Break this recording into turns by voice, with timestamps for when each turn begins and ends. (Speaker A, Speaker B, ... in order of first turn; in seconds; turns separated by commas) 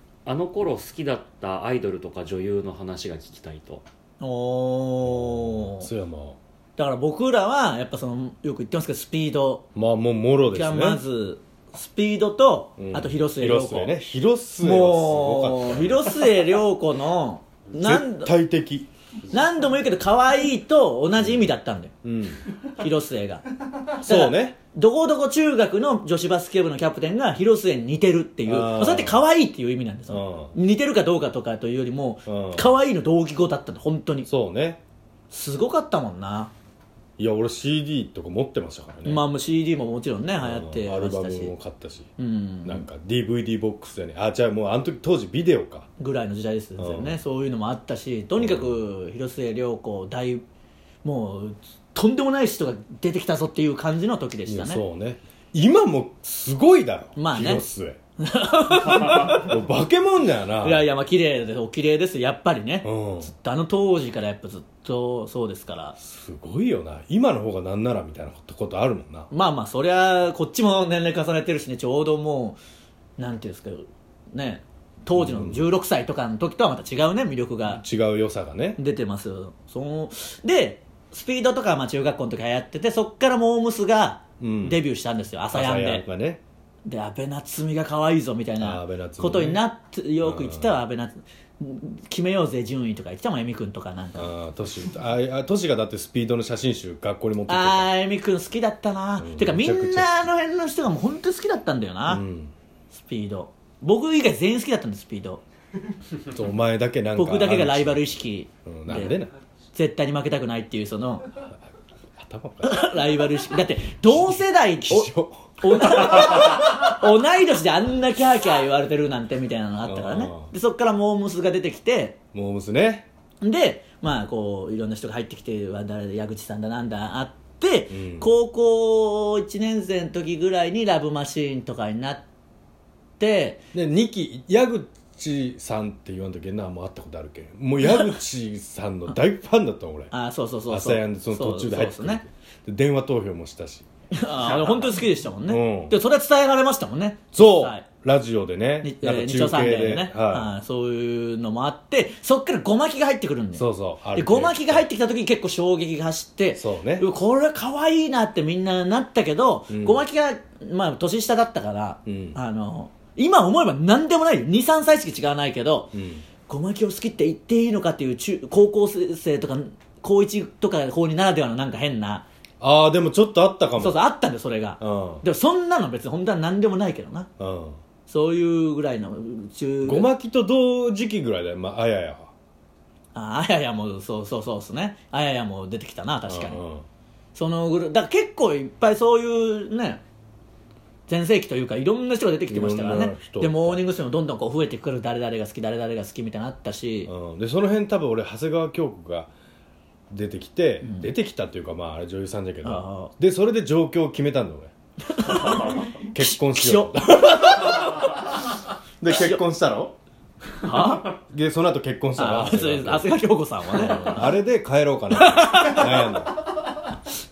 Speaker A: 0.2-3.8, Speaker B: 4.2-5.9, Speaker C: 5.1-6.4, Speaker B: 6.8-9.7, Speaker C: 9.7-11.0, Speaker B: 10.5-13.9, Speaker C: 12.8-16.3, Speaker B: 14.6-18.3, Speaker C: 17.8-18.9, Speaker B: 19.3-21.9, Speaker C: 22.0-22.4, Speaker B: 22.6-23.4, Speaker C: 24.0-24.6, Speaker B: 24.0-34.3, Speaker C: 28.4-29.2, Speaker C: 30.1-30.5, Speaker C: 32.2-32.7, Speaker C: 34.2-34.8, Speaker B: 35.3-36.5, Speaker C: 37.2-39.2, Speaker B: 39.0-41.5, Speaker C: 40.4-42.1, Speaker B: 42.2-42.9, Speaker C: 42.6-45.9, Speaker B: 46.0-50.4, Speaker C: 46.8-47.2, Speaker C: 48.4-48.8, Speaker B: 51.0-54.8, Speaker C: 54.5-58.0, Speaker B: 57.1-57.6, Speaker B: 58.2-59.5, Speaker C: 59.0-60.9, Speaker B: 60.6-66.0, Speaker C: 62.8-63.3, Speaker C: 66.0-69.3, Speaker B: 69.3-72.6, Speaker B: 73.2-77.8, Speaker C: 75.2-75.7, Speaker C: 77.6-78.8, Speaker B: 78.8-86.0, Speaker C: 84.4-84.8, Speaker C: 85.5-86.4, Speaker B: 86.8-94.3, Speaker C: 88.6-89.6, Speaker C: 90.2-90.8, Speaker C: 94.2-97.9, Speaker B: 97.5-102.2, Speaker C: 99.2-100.2, Speaker C: 102.1-102.5, Speaker B: 102.9-105.4, Speaker C: 106.2-108.1, Speaker B: 107.2-109.2, Speaker C: 108.6-109.3, Speaker B: 109.7-111.3, Speaker C: 112.2-113.0, Speaker B: 112.6-122.2, Speaker C: 114.1-116.4, Speaker C: 119.8-120.5, Speaker C: 122.3-123.1, Speaker B: 123.4-132.2, Speaker C: 127.9-128.3, Speaker B: 133.2-133.6, Speaker C: 133.7-140.1, Speaker B: 140.1-142.2, Speaker C: 140.7-143.8, Speaker B: 144.1-147.8, Speaker C: 145.4-145.9, Speaker C: 147.3-150.5, Speaker B: 148.8-172.2, Speaker C: 153.5-154.8, Speaker C: 156.5-157.1, Speaker C: 159.7-160.0, Speaker C: 162.1-162.4, Speaker C: 165.9-166.2, Speaker C: 172.6-174.0, Speaker B: 173.8-177.3, Speaker C: 174.8-175.2, Speaker C: 177.4-177.8, Speaker B: 178.1-180.1, Speaker C: 179.8-182.3, Speaker B: 183.1-186.6, Speaker C: 186.3-186.8, Speaker B: 187.3-190.0, Speaker B: 191.1-197.1, Speaker C: 192.5-193.8, Speaker C: 197.1-199.3, Speaker C: 200.1-204.7, Speaker B: 200.8-201.1, Speaker B: 202.6-203.1, Speaker B: 205.1-207.0, Speaker C: 205.3-208.3, Speaker C: 209.0-209.9, Speaker B: 209.1-209.4, Speaker B: 210.6-211.2, Speaker C: 210.7-213.1, Speaker B: 212.2-214.3, Speaker C: 213.7-216.4, Speaker B: 215.2-216.1